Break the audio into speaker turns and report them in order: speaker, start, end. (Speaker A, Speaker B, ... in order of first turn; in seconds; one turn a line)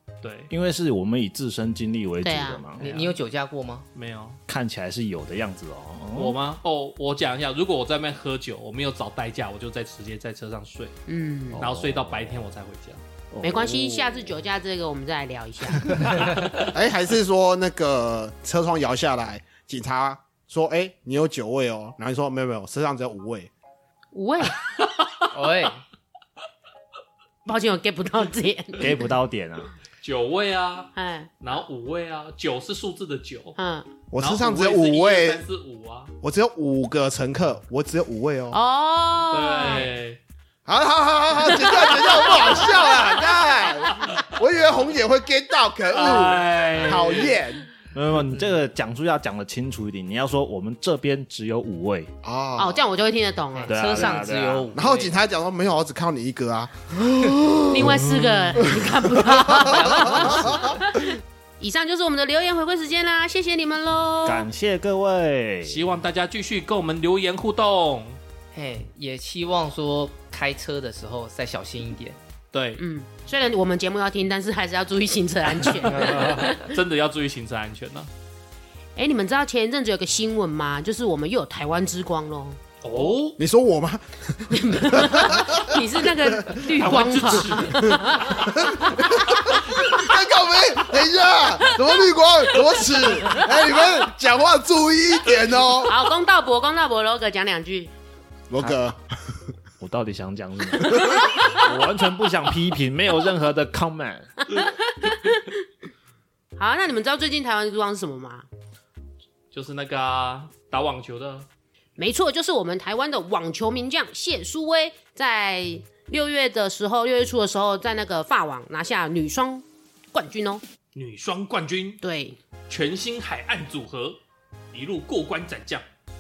Speaker A: 0.2-0.5
Speaker B: 0.5-2.9
Speaker C: 2.2-2.6
Speaker D: 2.8-3.9
Speaker A: 2.8-3.1
Speaker A: 3.9-4.4
Speaker B: 4.5-6.4
Speaker A: 6.1-10.9
Speaker C: 11.1-11.6
Speaker B: 11.5-12.4
Speaker A: 11.6-13.0
Speaker B: 13.3-13.9
Speaker C: 13.4-16.0
Speaker E: 16.5-23.5
Speaker C: 24.1-24.6
Speaker D: 25.3-25.8
Speaker C: 27.4-29.1
Speaker B: 28.8-29.7
Speaker A: 30.0-33.6
Speaker C: 30.9-31.3
Speaker C: 33.6-33.9
Speaker E: 34.1-35.4
Speaker A: 34.1-36.1
Speaker E: 36.2-38.6
Speaker C: 38.5-39.9
Speaker A: 39.3-40.2
Speaker E: 40.6-47.7
Speaker C: 41.7-42.9
Speaker A: 45.9-47.4
Speaker B: 47.9-52.1
Speaker D: 48.3-48.5
Speaker E: 52.2-52.9
Speaker C: 52.6-53.9
Speaker D: 53.6-55.1
Speaker B: 53.7-54.8
Speaker E: 54.7-58.1
Speaker C: 57.7-64.5
Speaker A: 57.9-58.6
Speaker E: 58.6-60.7
Speaker D: 59.6-60.7
Speaker B: 64.2-65.8
Speaker A: 65.6-68.2
Speaker D: 68.5-72.2
Speaker A: 72.5-72.8
Speaker C: 72.8-76.7
Speaker A: 75.8-78.1
Speaker D: 75.9-76.5
Speaker C: 79.0-82.6
Speaker A: 82.8-83.4
Speaker E: 83.4-86.7
Speaker C: 84.5-90.1
Speaker A: 86.7-88.2
Speaker E: 87.8-95.9
Speaker C: 95.8-97.9
Speaker E: 98.5-99.4
Speaker B: 99.8-104.5
Speaker E: 101.0-101.2
Speaker C: 104.5-105.6
Speaker C: 106.6-108.5
Speaker A: 109.5-111.5
Speaker C: 112.0-120.6
Speaker A: 120.9-122.0
Speaker C: 122.0-122.4
Speaker A: 122.7-124.2
Speaker A: 124.7-125.8